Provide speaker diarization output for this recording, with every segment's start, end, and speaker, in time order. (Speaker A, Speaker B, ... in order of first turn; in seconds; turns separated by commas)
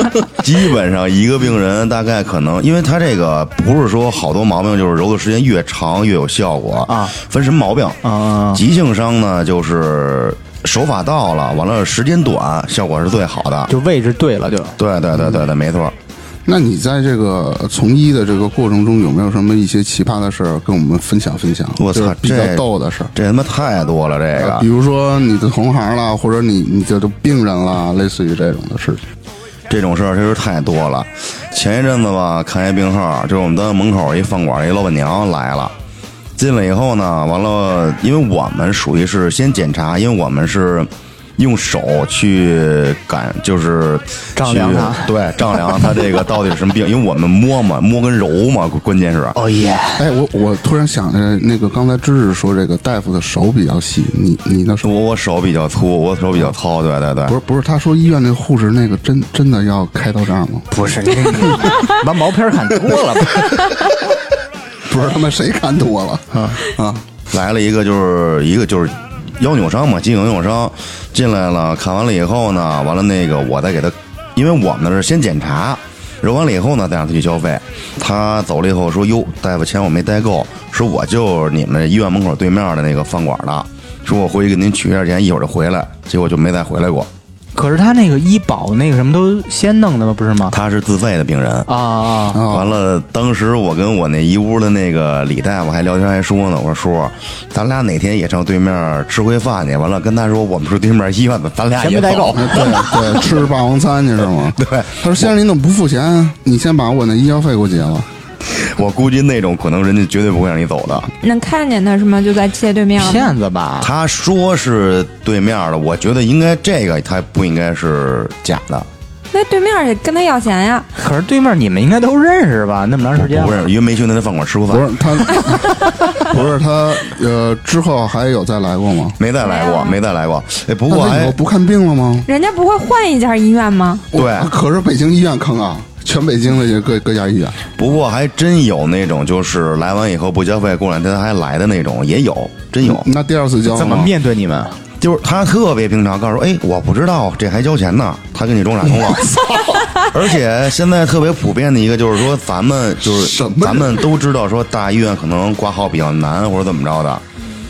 Speaker A: 0.3-8.0, Speaker B: 6.9-7.2, Speaker B: 8.0-8.6, Speaker A: 8.5-13.7, Speaker B: 13.7-14.8, Speaker A: 14.8-15.9, Speaker C: 15.2-15.4, Speaker C: 16.4-23.1, Speaker A: 21.8-24.6, Speaker C: 24.3-29.0, Speaker A: 29.7-35.7, Speaker A: 36.4-49.4, Speaker B: 44.4-45.1, Speaker B: 45.7-46.1, Speaker B: 49.3-50.0, Speaker C: 50.0-54.9, Speaker A: 54.8-57.3, Speaker C: 57.3-60.7, Speaker B: 60.7-64.0, Speaker C: 61.3-61.9, Speaker C: 63.2-63.5, Speaker C: 64.8-67.0, Speaker B: 66.3-66.6, Speaker A: 67.3-87.1, Speaker B: 87.5-90.5, Speaker A: 90.5-91.7, Speaker B: 91.7-92.4, Speaker C: 92.3-92.7, Speaker A: 92.5-102.8, Speaker B: 101.7-103.4, Speaker C: 102.3-108.1, Speaker A: 104.6-105.3, Speaker A: 108.5-111.1, Speaker D: 111.2-113.3, Speaker B: 113.0-113.9, Speaker A: 113.8-118.9, Speaker D: 119.3-120.9, Speaker B: 121.0-123.7, Speaker A: 123.1-125.1, Speaker C: 124.7-129.2, Speaker A: 129.2-131.3, Speaker D: 129.4-130.0, Speaker C: 130.9-132.3, Speaker D: 132.2-134.1, Speaker C: 134.1-137.7, Speaker A: 134.1-134.5, Speaker A: 137.8-143.1, Speaker C: 142.8-144.1, Speaker B: 143.7-144.8, Speaker A: 145.0-149.3, Speaker C: 148.9-150.0, Speaker A: 150.0-157.2, Speaker C: 153.0-154.0